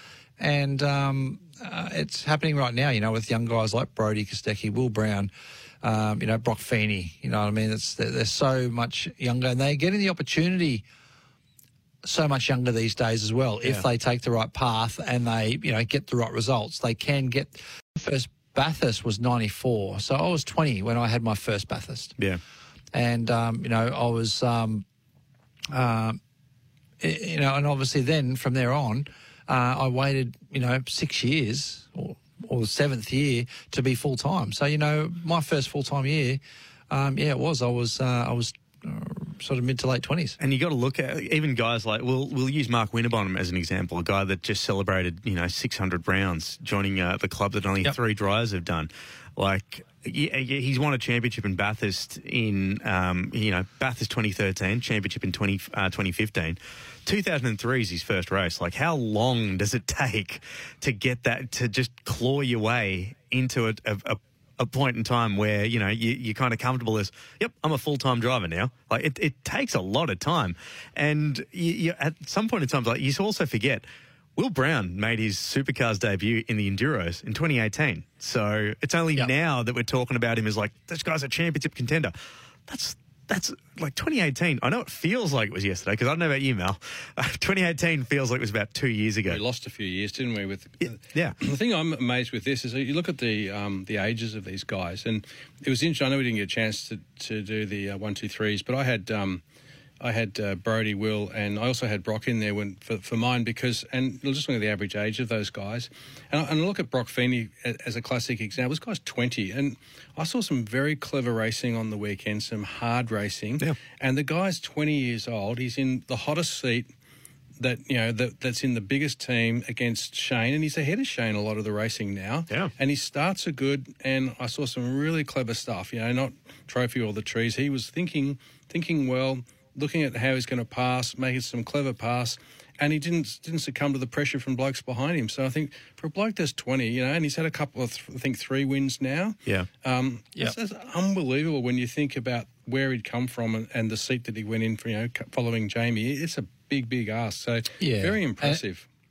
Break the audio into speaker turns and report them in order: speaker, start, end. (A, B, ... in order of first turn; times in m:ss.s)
0:00.4-0:05.3 A
0:05.8-0:10.8 A
0:12.0-0:22.2 A
0:22.9-0:24.8 A
0:25.7-0:26.2 A
0:27.0-0:40.4 A
0:40.4-1:13.8 B
1:14.4-1:22.2 B
1:22.7-1:29.4 B
1:29.2-1:39.4 C
1:31.1-1:31.4 B
1:40.0-1:56.9 C
1:57.6-2:28.8 C
2:27.8-2:28.6 A